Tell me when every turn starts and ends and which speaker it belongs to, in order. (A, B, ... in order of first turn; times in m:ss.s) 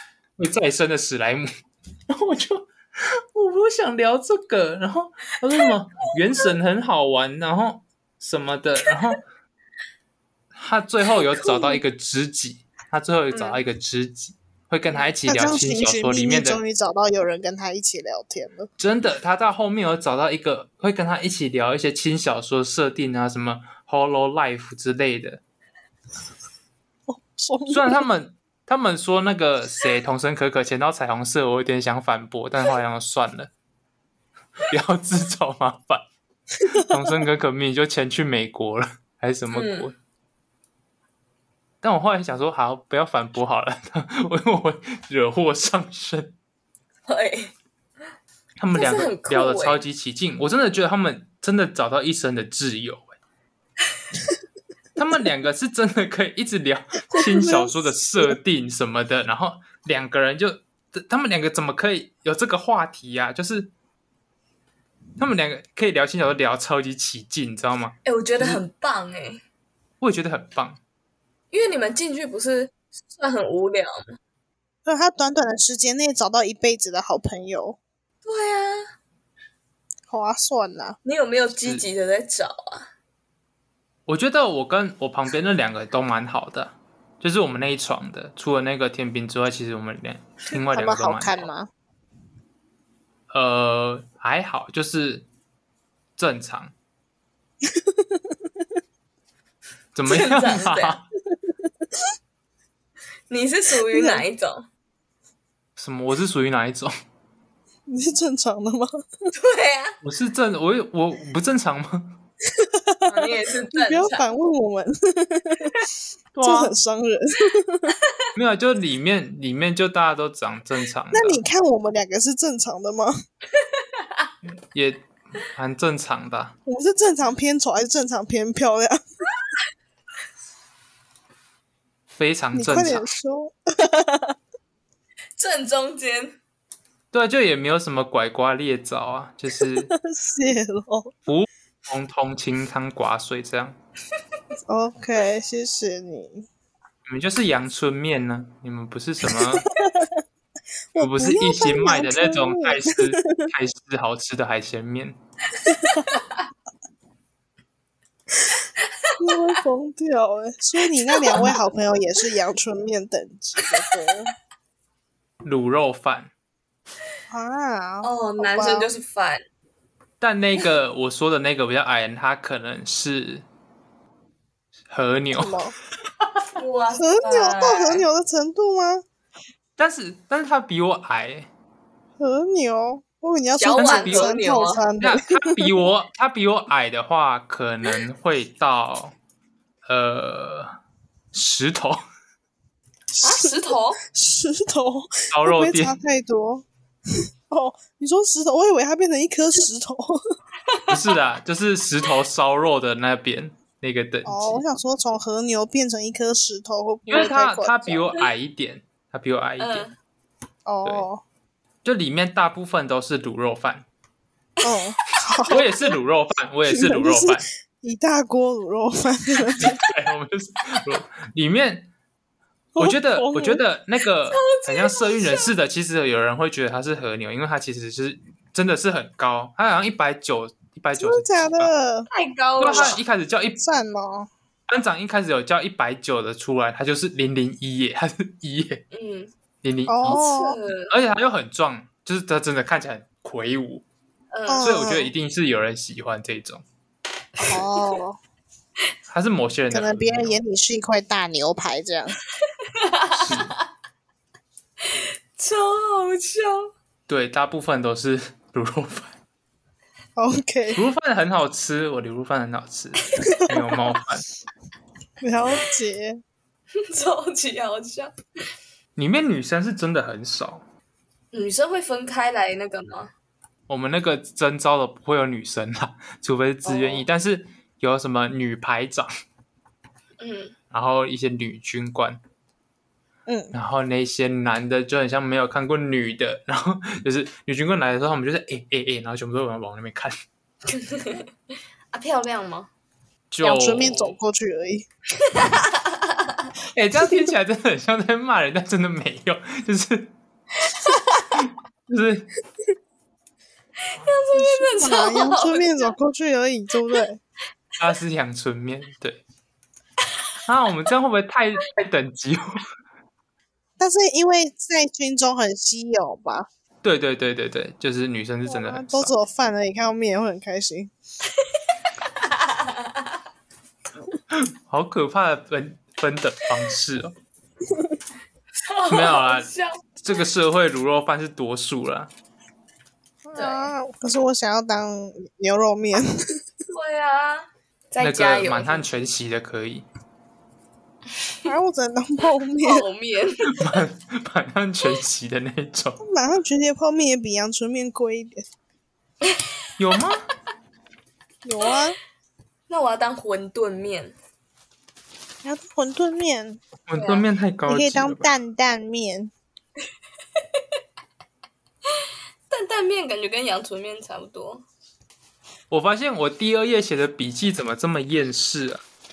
0:00.4-0:01.5 A
0:02.1-0:09.2 A
0:10.5-0:16.6 A
0:11.1-0:11.8 B
0:13.3-0:13.6 B
0:15.3-0:18.7 C
0:18.8-0:25.4 A
0:27.1-0:28.0 C
0:27.7-0:33.5 A
0:34.6-0:36.0 A
0:36.6-0:40.0 A
0:36.7-0:37.2 C
0:39.5-0:39.9 B
0:41.8-0:46.4 A
0:47.1-0:47.5 B
0:48.6-0:53.2 A
0:48.7-0:49.8 B
0:55.0-1:03.7 A
0:57.1-0:58.3 C
1:05.2-1:08.6 A
1:08.0-1:09.4 B
1:10.0-1:10.8 A
1:11.5-1:14.2 B
1:14.8-1:17.8 C
1:18.2-1:18.9 B
1:20.1-1:21.0 C
1:21.0-1:22.9 B
1:21.6-1:21.8 A
1:24.1-1:31.5 A
1:30.7-1:31.7 C
1:33.3-1:35.3 A
1:36.2-1:36.7 A
1:37.6-1:38.4 C
1:39.9-1:41.0 A
1:40.1-1:41.0 B
1:43.3-1:44.6 B
1:43.9-1:44.2 C
1:45.8-1:46.9 A
1:47.9-1:49.0 C
1:49.3-1:50.0 B
1:50.0-1:52.2 A
1:52.5-1:55.8 C
1:53.0-1:54.2 B
1:56.3-1:56.8 A
1:56.4-1:58.0 C
1:58.3-2:01.4 A
2:01.1-2:03.1 C
2:03.7-2:04.2 B
2:04.5-2:06.5 A
2:06.6-2:09.0 C
2:12.2-2:13.1 A
2:12.5-2:14.4 C
2:15.4-2:16.4 B
2:17.1-2:19.9 A
2:19.6-2:21.1 C
2:21.2-2:23.8 A
2:24.7-2:26.5 C
2:27.0-2:29.7 A
2:29.3-2:30.2 C
2:30.9-2:33.5 C
2:31.0-2:35.2 A
2:35.7-2:36.2 C
2:38.8-2:39.4 B
2:39.2-2:44.3 C
2:41.1-2:41.5 B
2:43.6-2:44.1 B
2:45.4-2:46.3 A
2:47.3-2:48.9 C
2:48.0-2:49.4 B
2:50.2-2:53.4 A
2:54.9-2:55.6 A
2:55.3-2:55.7 C
2:56.6-2:58.0 B
2:57.0-2:59.0 C
2:59.8-3:01.5 A
3:02.2-3:05.7 C
3:03.6-3:04.8 B
3:03.8-3:04.3 A
3:05.0-3:09.1 A
3:09.8-3:10.7 A
3:11.3-3:12.0 A
3:13.1-3:16.6 C
3:13.2-3:14.0 B
3:15.3-3:16.0 A
3:17.5-3:20.2 C
3:20.7-3:20.9 B
3:20.9-3:24.6 A
3:24.2-3:28.0 C
3:27.1-3:29.9 A
3:29.6-3:29.9 B
3:30.6-3:31.2 C
3:31.8-3:33.8 A
3:34.6-3:35.6 B
3:34.6-3:35.6 C
3:35.5-3:37.5 A
3:36.6-3:39.8 C
3:39.6-3:41.9 A
3:42.8-3:43.6 C
3:42.8-3:51.7 A
3:44.3-3:45.5 B
3:51.0-3:52.1 C
3:52.1-3:53.0 B
3:52.6-3:53.6 A
3:52.6-3:53.0 C
3:53.6-3:54.3 C
3:54.7-3:58.8 A
3:58.9-3:59.3 B
3:59.6-4:00.2 A
3:59.9-4:00.6 C
4:00.0-4:00.9 B
4:00.9-4:03.8 A
4:04.3-4:04.8 B
4:04.5-4:05.1 C
4:04.6-4:06.6 A
4:07.4-4:08.2 C
4:07.4-4:07.9 B
4:09.1-4:10.4 A
4:09.7-4:12.2 C
4:12.4-4:13.6 B
4:13.1-4:13.6 A
4:14.8-4:16.7 B
4:17.1-4:19.2 A
4:20.2-4:20.8 C
4:20.7-4:24.3 A
4:25.2-4:26.2 C
4:26.7-4:28.1 B
4:29.0-4:30.6 A
4:31.3-4:33.1 B
4:33.7-4:39.1 A
4:36.6-4:37.0 C
4:40.2-4:40.6 B
4:40.7-4:42.2 A
4:43.3-4:43.5 C
4:43.5-4:50.1 A
4:50.7-4:51.3 B
4:51.9-4:52.7 B
4:53.3-4:54.2 A
4:53.4-4:54.9 C
4:55.2-4:56.5 B
4:56.7-5:00.1 A
5:00.6-5:01.4 B
5:01.3-5:02.3 A
5:03.8-5:05.9 B
5:04.3-5:07.2 C
5:07.8-5:09.2 A
5:10.4-5:12.6 A
5:13.8-5:16.5 C
5:16.8-5:19.1 A
5:18.5-5:20.9 C
5:22.2-5:23.2 B
5:24.3-5:27.1 A
5:27.7-5:28.0 C
5:28.6-5:29.8 B
5:28.9-5:32.1 A
5:33.2-5:36.2 C
5:33.3-5:33.7 B
5:36.7-5:39.1 B
5:38.0-5:39.8 A
5:41.4-5:42.8 C
5:42.6-5:43.8 B
5:43.4-5:46.0 A
5:46.0-5:48.4 C
5:49.8-5:50.2 A
5:51.4-5:52.0 C
5:52.7-5:54.1 B
5:55.4-5:56.6 C
5:56.9-5:58.3 A
5:56.9-5:57.2 B
5:57.7-5:59.3 C
6:02.5-6:04.6 B
6:05.7-6:08.8 A